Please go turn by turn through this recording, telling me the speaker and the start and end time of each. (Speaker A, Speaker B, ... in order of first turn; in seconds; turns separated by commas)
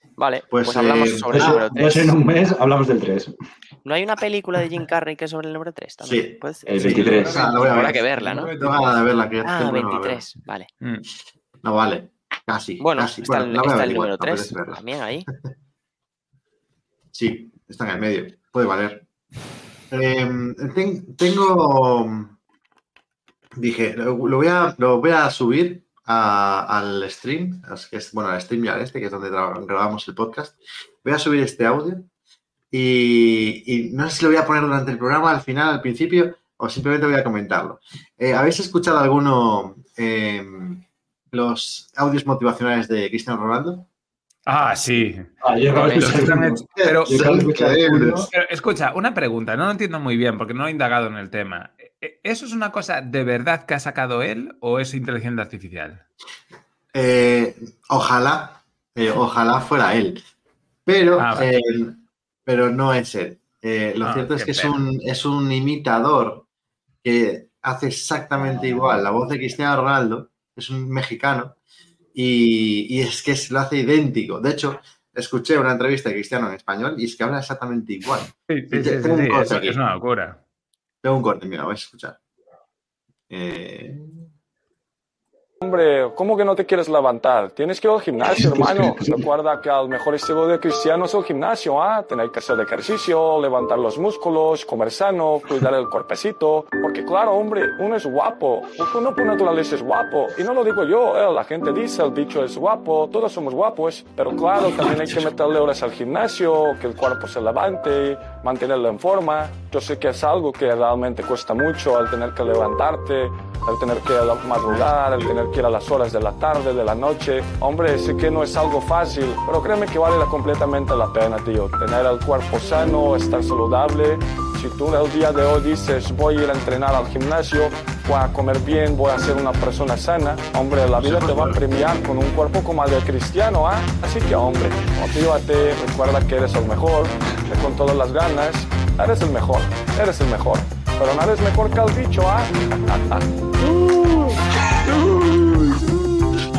Speaker A: 0.2-2.2, Speaker B: 0.5-1.6, Speaker C: 1.3-3.3, Speaker A: 3.8-8.5, Speaker B: 6.0-10.2, Speaker C: 6.6-7.4, Speaker D: 7.0-9.0, Speaker A: 9.4-10.7, Speaker B: 11.6-14.8, Speaker A: 12.8-15.3, Speaker B: 17.1-19.1, Speaker B: 19.9-22.3, Speaker B: 23.6-32.1, Speaker B: 32.7-43.9, Speaker D: 44.5-47.4, Speaker C: 45.4-48.3, Speaker A: 45.8-46.2, Speaker B: 46.8-48.3, Speaker D: 48.3-56.0, Speaker B: 56.9-60.2, Speaker B: 60.9-66.5, Speaker D: 61.2-61.5, Speaker D: 64.0-64.8, Speaker B: 67.0-71.6, Speaker B: 72.1-79.8, Speaker D: 78.5-80.4, Speaker B: 81.0-82.2, Speaker B: 83.3-84.2, Speaker E: 85.6-144.5, Speaker C: 88.3-89.2, Speaker B: 131.0-131.6